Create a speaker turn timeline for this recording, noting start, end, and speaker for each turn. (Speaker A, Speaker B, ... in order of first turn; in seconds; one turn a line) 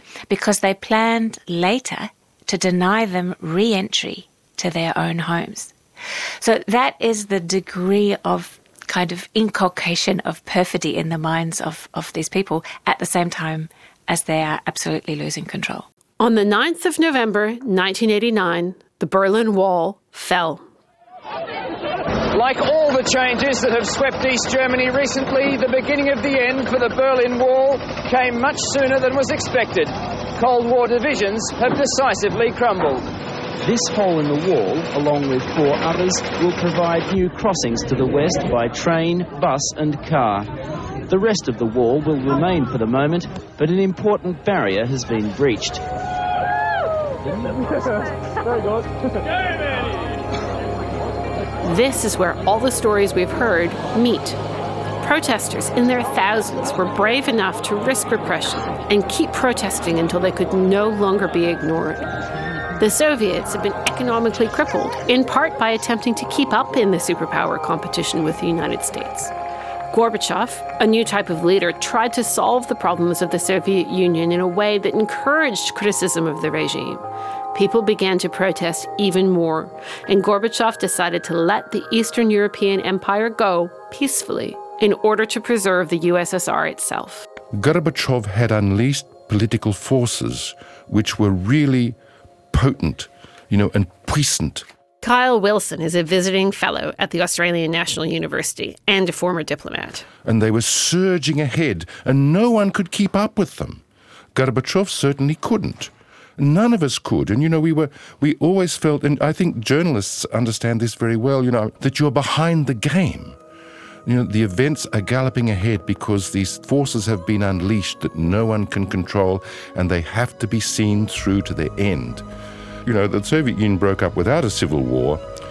Speaker A: 0.3-5.7
Speaker A: 6.4-15.9
Speaker B: 16.2-20.6
Speaker C: 22.3-33.1
Speaker D: 33.6-40.5
Speaker D: 41.1-45.8
Speaker B: 51.6-54.4
Speaker B: 55.0-62.1
Speaker B: 62.8-69.3
Speaker B: 69.9-77.0
Speaker B: 77.5-87.3
Speaker E: 87.5-92.0
Speaker E: 92.5-94.6
Speaker B: 95.0-100.1
Speaker E: 100.2-103.8
Speaker E: 104.3-113.4
Speaker E: 114.1-122.2
Speaker E: 122.8-125.2